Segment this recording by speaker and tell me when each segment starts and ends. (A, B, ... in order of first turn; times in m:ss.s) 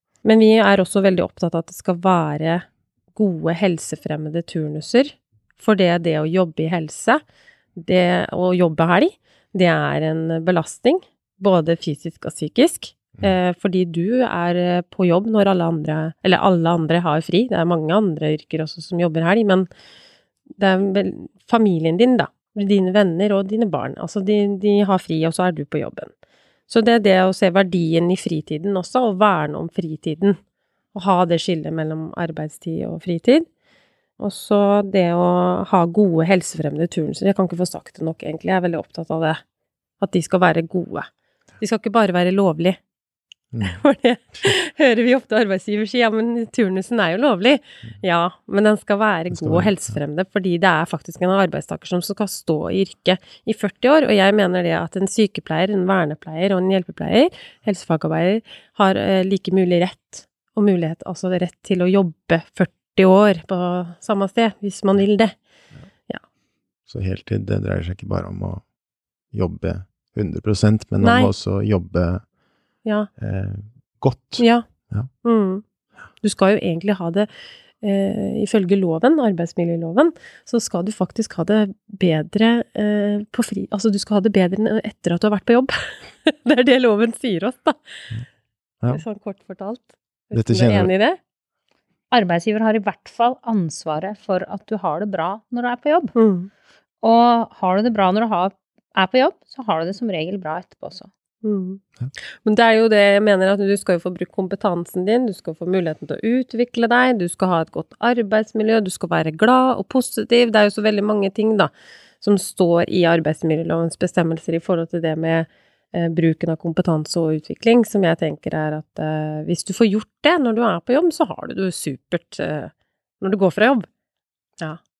0:00.2-0:07.2 A
0:07.8-0:19.7 A
0:20.6-0:26.1 A
0:26.7-0:30.4 A
0:30.9-0:33.5 A
0:34.2-0:39.4 A
0:40.0-0:41.1 A
0:41.6-0:42.8 A
0:43.5-0:43.8 B
0:43.6-1:05.4 A
0:49.3-0:49.7 B
1:06.9-1:08.6 B
1:09.3-1:12.2 B
1:11.0-1:11.3 A
1:12.8-1:13.1 A
1:13.2-1:15.1 B
1:14.4-1:14.7 A
1:15.2-1:15.6 A
1:16.2-1:17.3 A
1:17.8-1:27.8 A
1:28.9-1:31.2 A
1:30.3-1:30.9 B
1:32.1-1:36.1 C
1:36.2-1:36.5 A
1:37.0-1:41.1 C
1:41.4-1:41.8 A
1:42.4-2:03.9 A